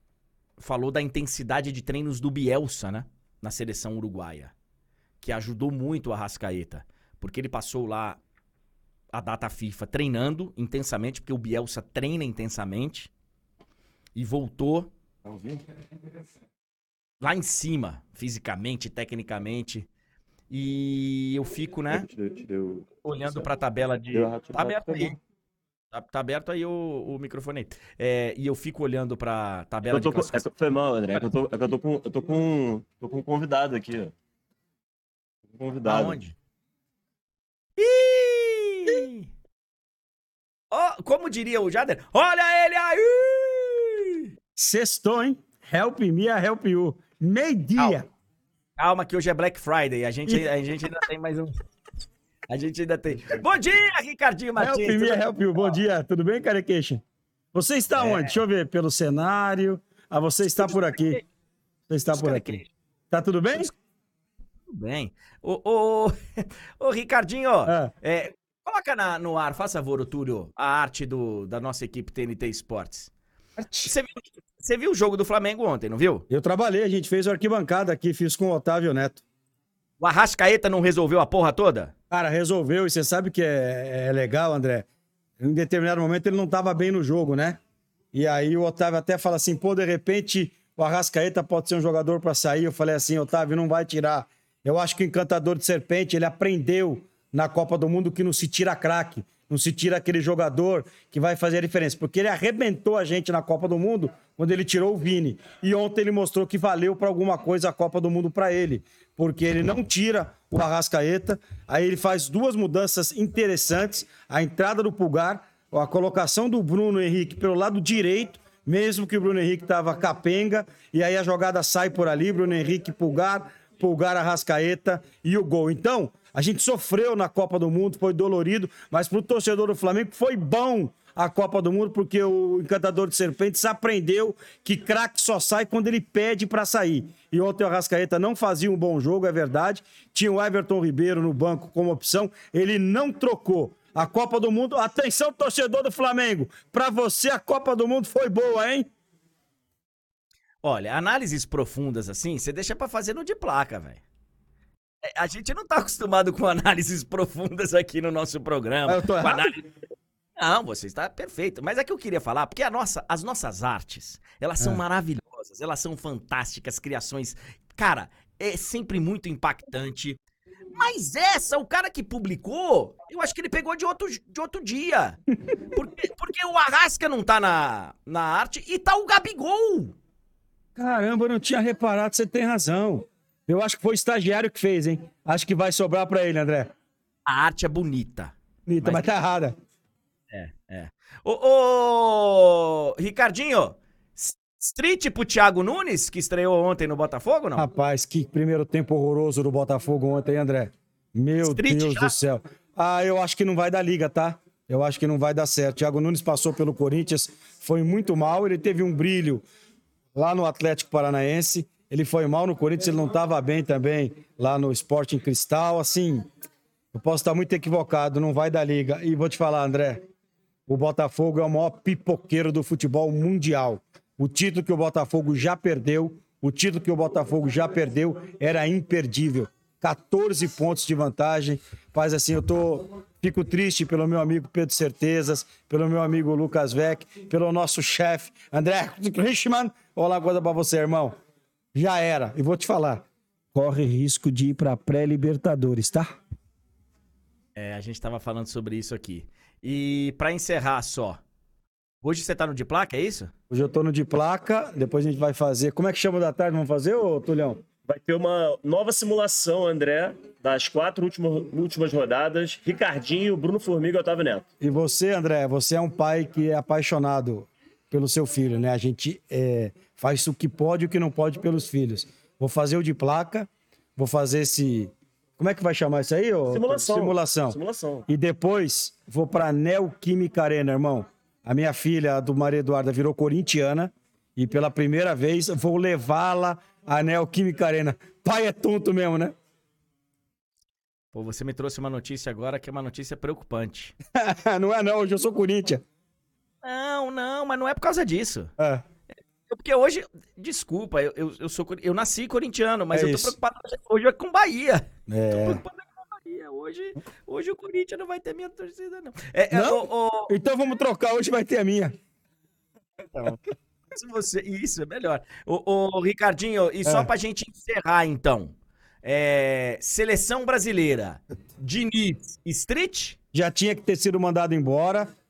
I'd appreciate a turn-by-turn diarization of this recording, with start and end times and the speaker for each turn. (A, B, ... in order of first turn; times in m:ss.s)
0:00.6-0:04.5 A
0:05.2-0:08.2 A
0:09.1-0:13.1 A
0:14.1-0:14.9 A
0:15.2-0:15.6 B
0:17.2-0:19.9 A
0:20.5-0:22.1 A
0:21.9-0:23.4 B
0:23.0-0:25.2 A
0:24.1-0:25.1 B
0:25.9-0:30.4 A
0:29.9-0:34.1 B
0:35.5-0:36.2 B
0:35.8-0:36.4 A
0:37.8-0:39.3 A
0:40.7-0:44.3 A
0:44.6-0:48.0 C
0:47.8-0:48.0 A
0:48.8-0:51.5 A
0:52.5-0:55.8 A
0:54.6-0:57.0 C
0:57.5-1:01.2 C
0:57.9-0:58.4 A
1:00.6-1:01.2 A
1:01.9-1:03.7 C
1:02.1-1:02.7 A
1:04.7-1:13.1 A
1:13.8-1:16.2 A
1:16.3-1:19.2 C
1:20.0-1:21.9 A
1:22.1-1:24.8 C
1:25.4-1:27.6 C
1:28.1-2:28.9 C
2:30.6-2:34.0 A
2:35.0-2:39.6 A
2:38.9-2:39.5 C
2:40.4-2:50.2 A
2:50.7-3:00.0 A
3:00.8-3:06.7 C
3:07.2-3:09.1 A
3:08.7-3:09.5 C
3:10.3-3:17.7 A
3:17.6-3:29.4 C
3:21.4-3:22.2 A
3:30.1-3:36.3 C
3:36.9-3:40.0 C
3:40.7-4:01.1 C
4:01.7-4:06.2 C
4:07.5-4:11.2 A
4:12.0-4:13.3 A
4:13.5-4:17.6 C
4:17.8-4:24.4 B
4:24.6-4:49.3 C
4:36.5-4:38.1 B
4:51.1-4:53.9 A
4:54.2-4:55.8 C
4:56.6-4:58.5 A
4:59.5-5:10.3 A
5:02.9-5:03.3 C
5:05.1-5:05.6 C
5:09.5-5:11.9 C
5:13.1-5:13.4 A
5:13.9-5:23.2 A
5:16.8-5:17.1 C
5:23.3-5:25.1 C